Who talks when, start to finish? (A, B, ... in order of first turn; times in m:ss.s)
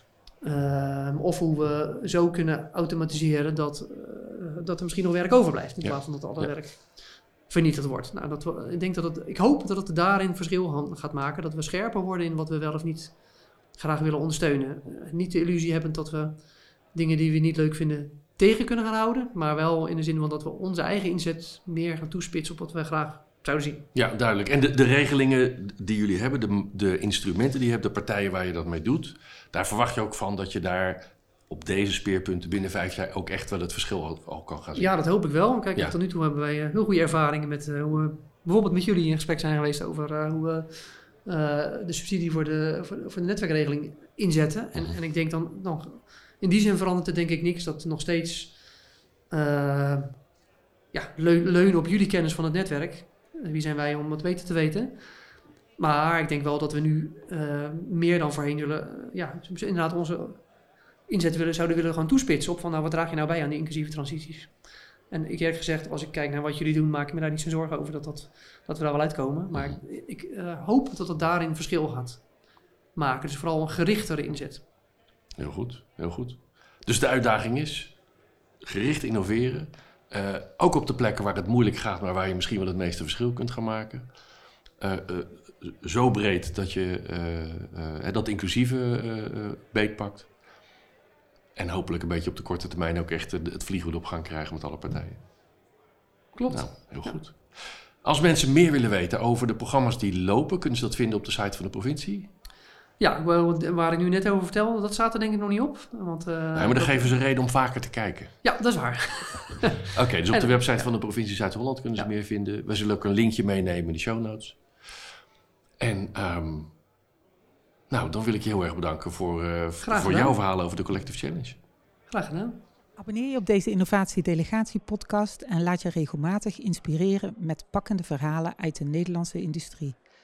0:00.4-0:23.8 A
0:05.8-0:06.6 B
0:23.9-0:34.9 B
0:34.8-0:48.7 A
0:49.3-0:50.2 A
0:50.9-0:55.2 A
0:55.8-1:00.5 A
1:01.1-1:04.6 A
1:05.1-1:12.3 A
1:09.5-1:09.8 B
1:12.9-1:14.6 A
1:15.4-1:18.0 B
1:18.6-1:24.2 B
1:24.8-1:30.3 B
1:31.6-1:35.2 B
1:36.3-1:37.2 A
1:36.5-1:42.3 B
1:43.0-1:47.1 A
1:46.5-1:48.5 B
1:48.4-1:50.9 A
1:49.8-1:55.0 B
1:55.8-1:56.7 B
1:57.9-2:01.6 B
1:59.8-2:00.4 A
2:02.1-2:02.6 A
2:03.0-2:10.0 C